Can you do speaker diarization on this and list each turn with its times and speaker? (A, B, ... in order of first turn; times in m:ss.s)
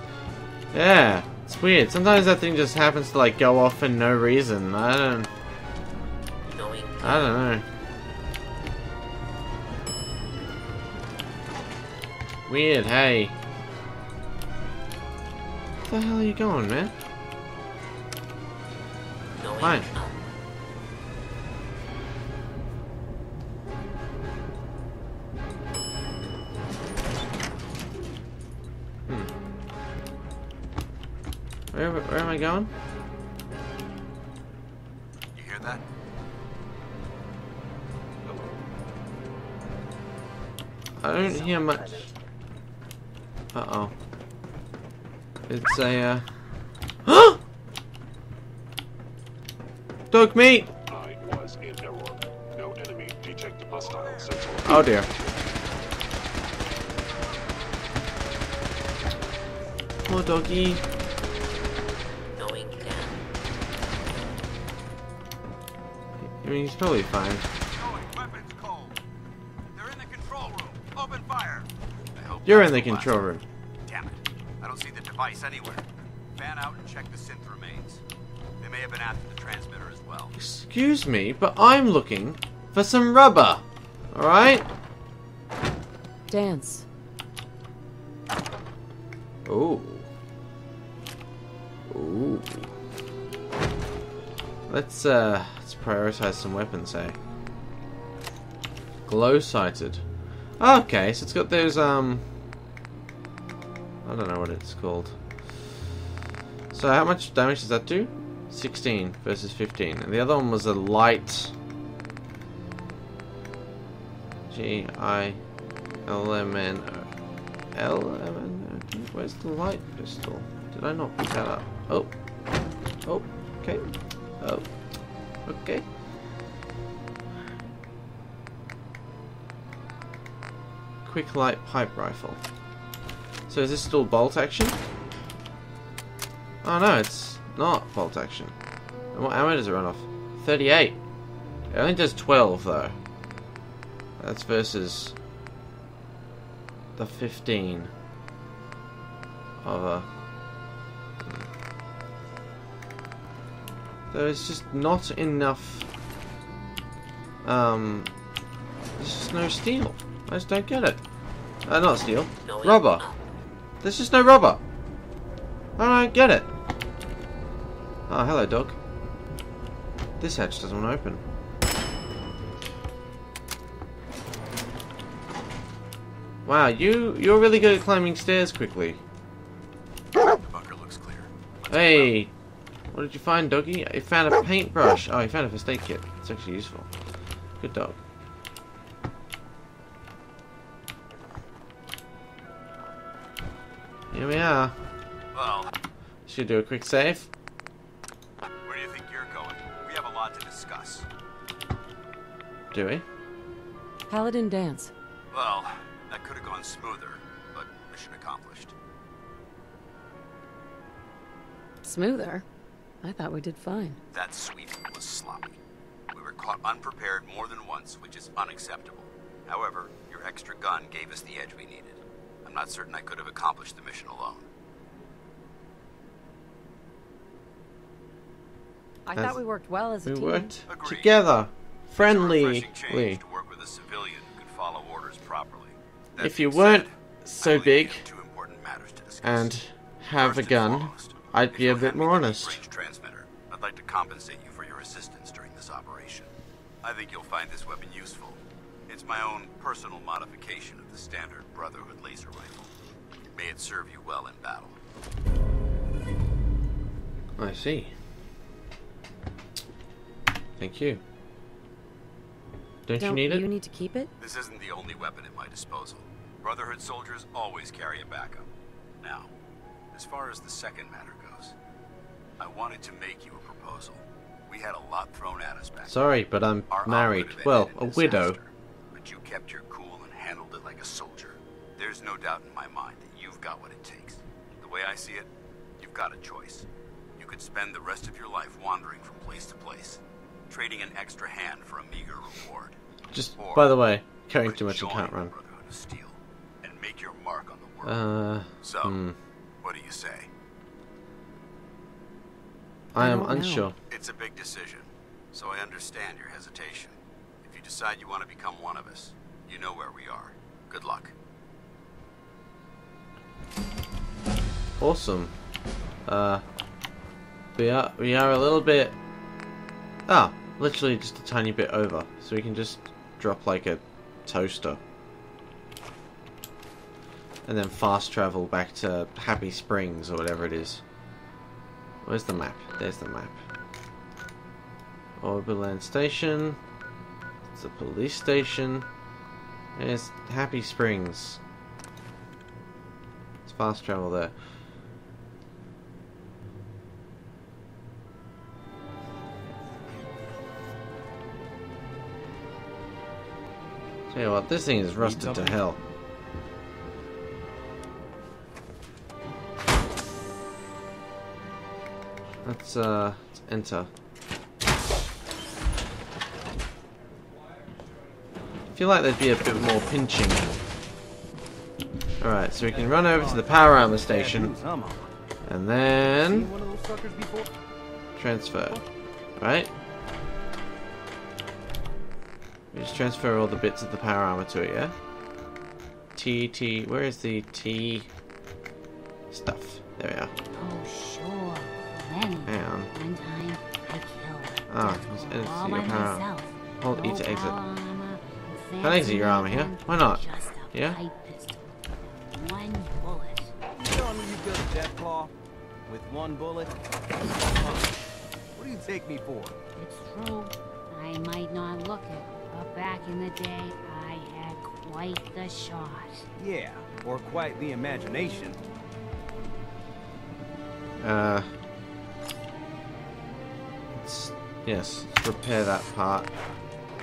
0:00.7-0:05.3 A
0:06.5-0:07.4 B
0:07.0-0:07.6 A
0:12.5-0:13.4 A
0:15.9-0:16.9 A
0:19.4-0:20.1 B
0:19.6-0:19.9 A
0:31.7-0:32.7 A
0:35.3-0:35.8 C
0:38.2-0:38.5 D
0:41.0-0:42.1 A
0:41.2-0:42.1 B
0:43.5-0:43.9 A
0:45.5-0:46.3 A
0:47.1-0:47.4 A
0:50.1-0:50.7 A
0:50.9-0:55.5 D
0:53.7-0:54.5 C
0:54.6-0:55.1 A
1:00.1-1:00.8 A
1:02.4-1:03.2 B
1:06.3-1:07.5 A
1:07.7-1:09.0 C
1:09.7-1:13.3 C
1:12.4-1:13.4 A
1:13.9-1:15.8 C
1:16.4-1:18.0 C
1:18.6-1:20.4 C
1:20.4-1:24.7 A
1:26.3-1:26.8 E
1:29.4-1:30.1 A
1:31.9-1:32.7 A
1:34.7-1:37.2 A
1:39.1-1:40.0 A
1:40.6-1:42.2 A
1:44.0-1:45.2 A
1:46.7-1:51.5 A
1:54.5-1:55.4 A
1:56.1-1:57.1 A
1:57.7-2:02.1 A
2:03.0-2:03.9 A
2:04.4-2:04.7 A
2:05.5-2:05.8 A
2:11.0-2:12.4 A
2:13.5-2:14.8 A
2:16.6-2:18.5 A
2:19.1-2:21.0 A
2:21.7-2:23.0 A
2:24.2-2:25.2 A
2:27.0-2:27.9 A
2:29.6-2:30.1 A
2:34.1-2:35.9 A
2:37.4-2:38.1 A
2:39.0-2:41.0 A
2:41.7-2:43.1 A
2:42.4-2:43.2 B
2:43.8-2:44.6 A
2:45.8-2:46.5 A
2:48.1-2:48.8 A
2:50.2-2:51.2 A
2:56.4-2:59.0 A
3:00.2-3:02.2 C
3:01.7-3:02.3 A
3:02.9-3:06.9 A
3:07.6-3:08.0 A
3:14.1-3:14.8 A
3:15.3-3:15.7 C
3:16.3-3:17.3 A
3:18.6-3:21.1 C
3:22.7-3:23.0 A
3:24.1-3:24.9 E
3:25.3-3:28.7 C
3:31.8-3:32.4 E
3:33.0-3:34.0 E
3:34.1-3:35.6 C
3:36.1-3:44.5 C
3:49.1-3:50.5 E
3:49.1-3:49.4 A
3:50.0-3:53.2 A
3:50.7-3:51.2 C
3:52.0-3:59.6 C
3:56.2-3:58.1 A
3:59.2-4:02.6 A
4:00.2-4:06.3 C
4:06.8-4:12.7 C
4:13.3-4:14.8 C
4:17.4-4:17.9 A
4:20.6-4:21.0 A
4:22.9-4:23.5 A
4:23.0-4:24.1 E
4:24.2-4:28.5 C
4:29.0-4:29.3 C
4:29.9-4:31.5 C
4:32.4-4:36.0 C
4:35.8-4:38.4 A
4:36.7-4:46.7 C
4:47.2-4:52.8 C
4:53.1-4:55.3 A
4:53.3-4:53.8 C
4:54.3-4:58.1 C
4:57.8-4:59.2 A
4:58.6-4:59.0 C
4:59.6-5:00.3 C
5:02.9-5:03.8 A
5:03.0-5:03.7 E
5:03.9-5:11.1 C
5:14.8-5:15.4 A
5:16.1-5:16.4 A
5:17.6-5:19.0 A
5:20.1-5:24.8 A
5:27.4-5:30.8 A
5:32.0-5:33.4 A
5:35.2-5:36.6 A
5:37.6-5:38.9 A
5:39.8-5:41.4 A
5:43.4-5:44.3 A
5:54.1-5:55.8 A
5:55.0-5:55.6 F
6:02.4-6:03.9 A
6:08.7-6:10.5 A
6:12.2-6:14.6 A
6:12.6-6:15.1 F
6:15.5-6:16.5 A
6:16.2-6:17.5 F
6:18.2-6:18.8 A
6:19.4-6:19.7 A
6:22.7-6:25.0 A
6:26.2-6:28.1 A
6:29.3-6:30.3 A
6:30.5-6:43.5 G
6:32.5-6:32.9 A
6:34.7-6:37.6 A
6:38.8-6:41.0 A
6:43.8-6:45.3 F
6:45.9-6:48.0 F
6:48.6-6:49.6 F
6:49.8-6:56.2 G
6:56.4-6:58.6 F
7:01.0-7:01.5 A
7:04.0-7:06.3 A